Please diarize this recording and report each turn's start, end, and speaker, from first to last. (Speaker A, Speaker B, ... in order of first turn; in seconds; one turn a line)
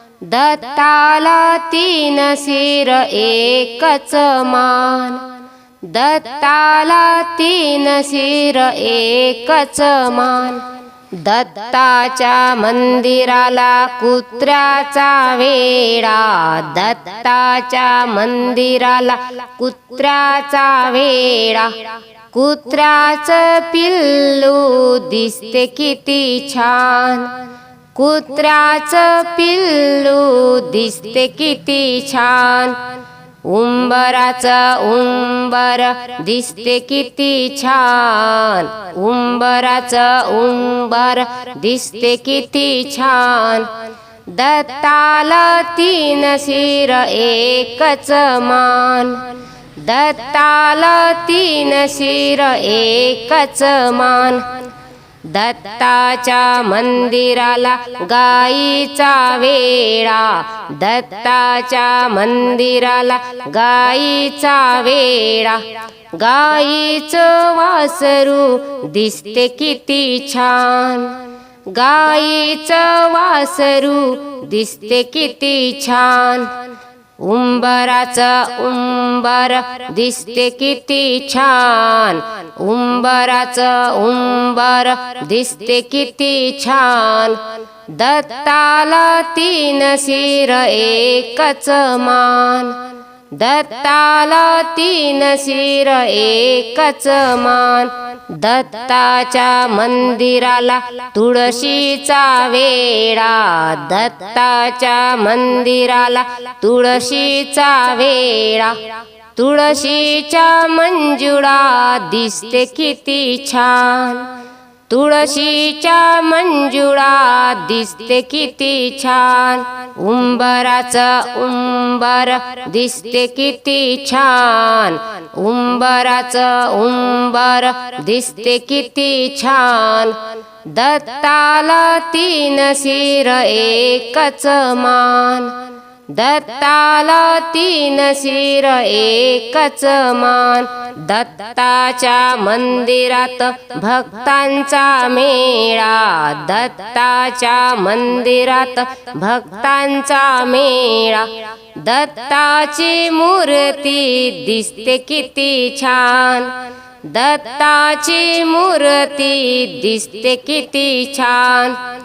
Speaker A: 0.2-5.3
Speaker A: 5.8-27.4
Speaker A: 27.9-32.8
Speaker A: 33.4-43.7
Speaker A: 44.3-54.6
Speaker A: 55.2-76.6
Speaker A: 77.2-114.3
Speaker A: 114.9-161.8